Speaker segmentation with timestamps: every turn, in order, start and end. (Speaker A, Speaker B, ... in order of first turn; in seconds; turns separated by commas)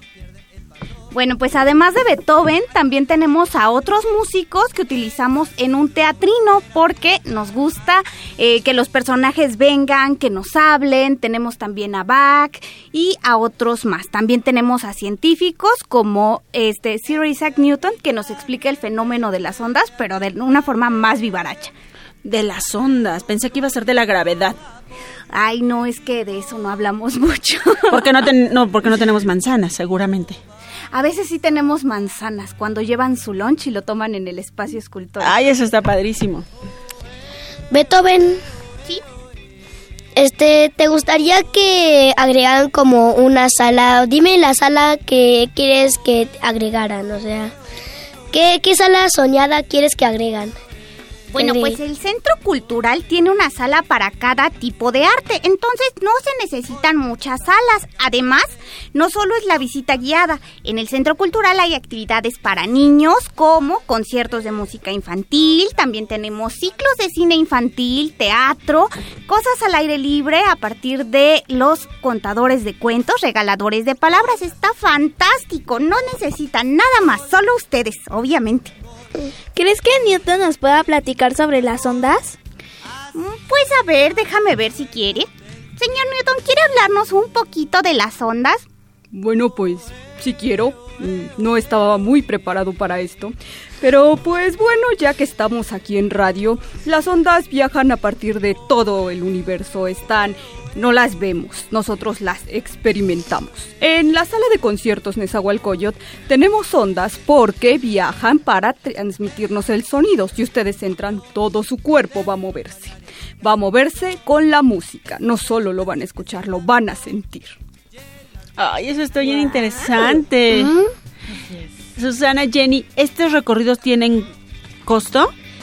Speaker A: 1.1-21.7, Speaker B: 22.2-24.6, Speaker A: 25.3-28.1, Speaker B: 27.9-30.4, Speaker A: 30.9-35.4, Speaker B: 35.2-36.5, Speaker C: 37.7-38.4, Speaker C: 40.1-47.5, Speaker C: 48.3-50.5, Speaker D: 51.3-78.7, Speaker C: 51.4-51.8, Speaker E: 79.5-82.4, Speaker D: 83.1-88.6, Speaker F: 89.1-117.5, Speaker B: 118.6-120.7, Speaker B: 122.0-124.3, Speaker B: 124.8-125.3